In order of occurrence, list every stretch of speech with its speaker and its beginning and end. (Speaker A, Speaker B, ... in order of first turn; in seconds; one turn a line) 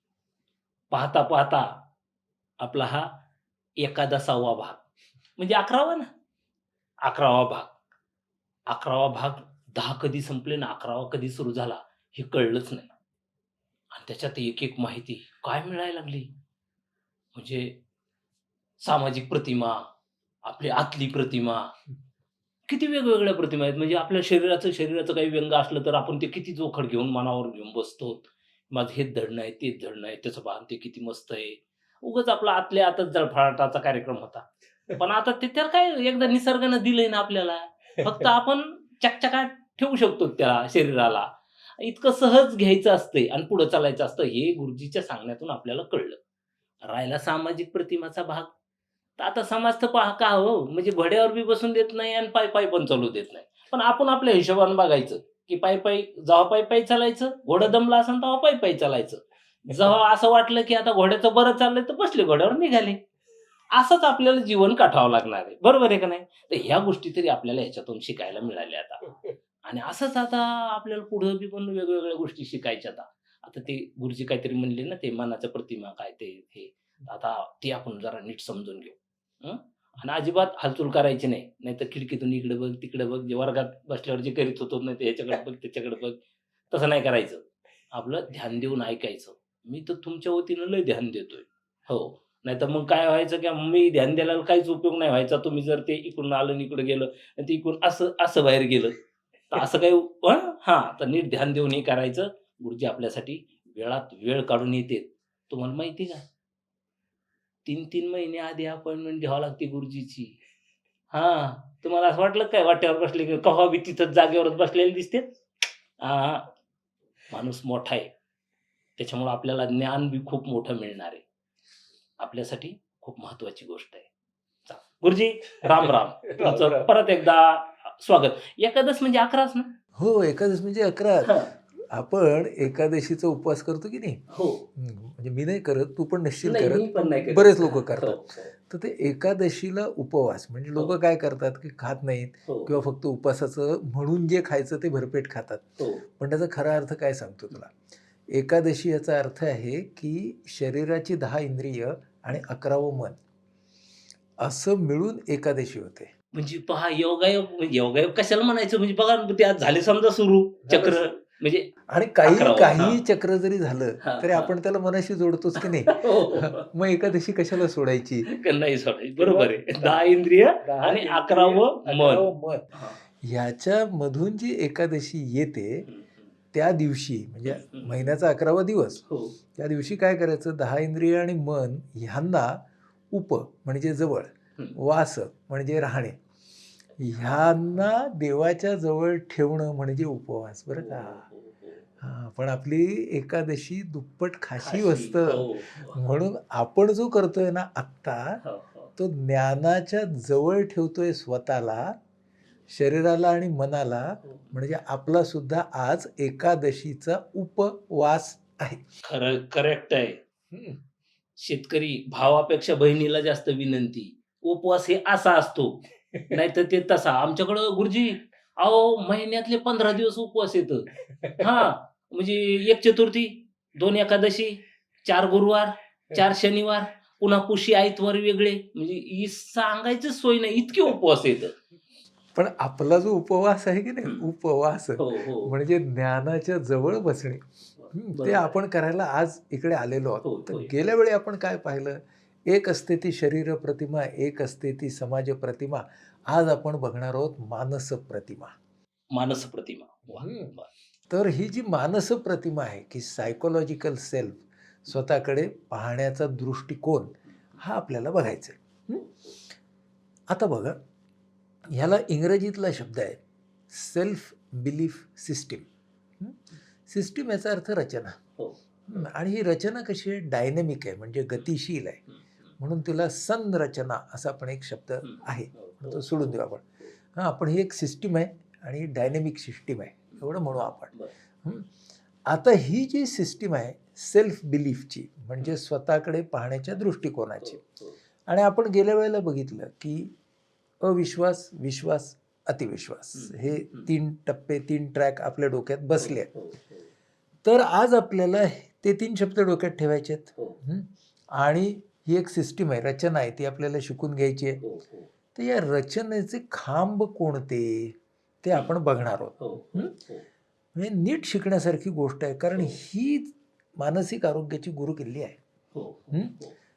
Speaker A: 0.9-1.7
Speaker A: 2.6-3.1
Speaker A: 3.8-4.8
Speaker A: 5.4-6.1
Speaker A: 7.0-7.7
Speaker A: 8.7-12.9
Speaker A: 13.9-16.3
Speaker A: 17.3-17.8
Speaker A: 18.8-19.9
Speaker A: 20.4-21.7
Speaker A: 22.7-46.2
Speaker A: 46.8-48.5
Speaker A: 49.2-63.0
Speaker A: 63.7-86.2
Speaker A: 86.7-98.9
Speaker A: 99.5-106.2
Speaker A: 107.6-110.4
Speaker A: 111.1-115.2
Speaker A: 116.0-116.5
Speaker A: 117.3-118.1
Speaker A: 119.0-121.2
Speaker A: 122.2-124.1
Speaker A: 124.7-129.7
Speaker B: 125.7-126.9
Speaker B: 129.9-134.2
Speaker A: 131.2-131.5
Speaker A: 134.3-134.7
Speaker B: 134.8-147.8
Speaker A: 136.4-138.5
Speaker A: 142.4-142.8
Speaker A: 145.8-146.0
Speaker B: 148.3-153.2
Speaker B: 154.4-156.1
Speaker A: 156.3-161.7
Speaker B: 160.7-161.1
Speaker B: 161.9-168.3
Speaker A: 162.2-163.0
Speaker A: 164.0-164.5
Speaker A: 165.6-166.7
Speaker A: 168.2-173.0
Speaker B: 169.2-170.0
Speaker B: 170.6-172.7
Speaker B: 173.2-175.9
Speaker A: 175.9-176.2
Speaker B: 176.5-179.0
Speaker A: 177.4-178.2
Speaker A: 179.1-179.4
Speaker B: 179.5-186.2
Speaker B: 187.0-191.2
Speaker A: 187.2-187.7
Speaker A: 190.7-191.9
Speaker B: 192.0-198.4
Speaker A: 194.6-196.1
Speaker A: 198.4-198.9
Speaker B: 199.0-201.9
Speaker B: 202.7-208.8
Speaker A: 204.2-204.5
Speaker A: 209.0-210.2
Speaker B: 210.5-210.8
Speaker A: 211.4-231.5
Speaker B: 221.1-221.7
Speaker B: 232.3-248.5
Speaker A: 235.0-235.6
Speaker A: 237.8-238.6
Speaker A: 240.2-240.7
Speaker A: 249.1-250.7
Speaker B: 250.1-250.5
Speaker B: 251.1-259.0
Speaker A: 259.0-259.3
Speaker B: 260.3-260.8
Speaker B: 261.7-265.7
Speaker B: 266.2-268.2
Speaker A: 268.4-268.6
Speaker B: 268.9-272.0
Speaker B: 272.6-281.7
Speaker A: 275.0-276.4
Speaker B: 282.2-287.6
Speaker A: 287.4-287.9
Speaker B: 288.3-290.1
Speaker B: 290.8-296.3
Speaker A: 293.1-293.9
Speaker A: 296.0-296.8
Speaker B: 297.4-304.6
Speaker A: 304.6-305.1
Speaker B: 305.3-309.9
Speaker A: 309.4-310.2
Speaker B: 310.7-315.4
Speaker A: 315.7-316.5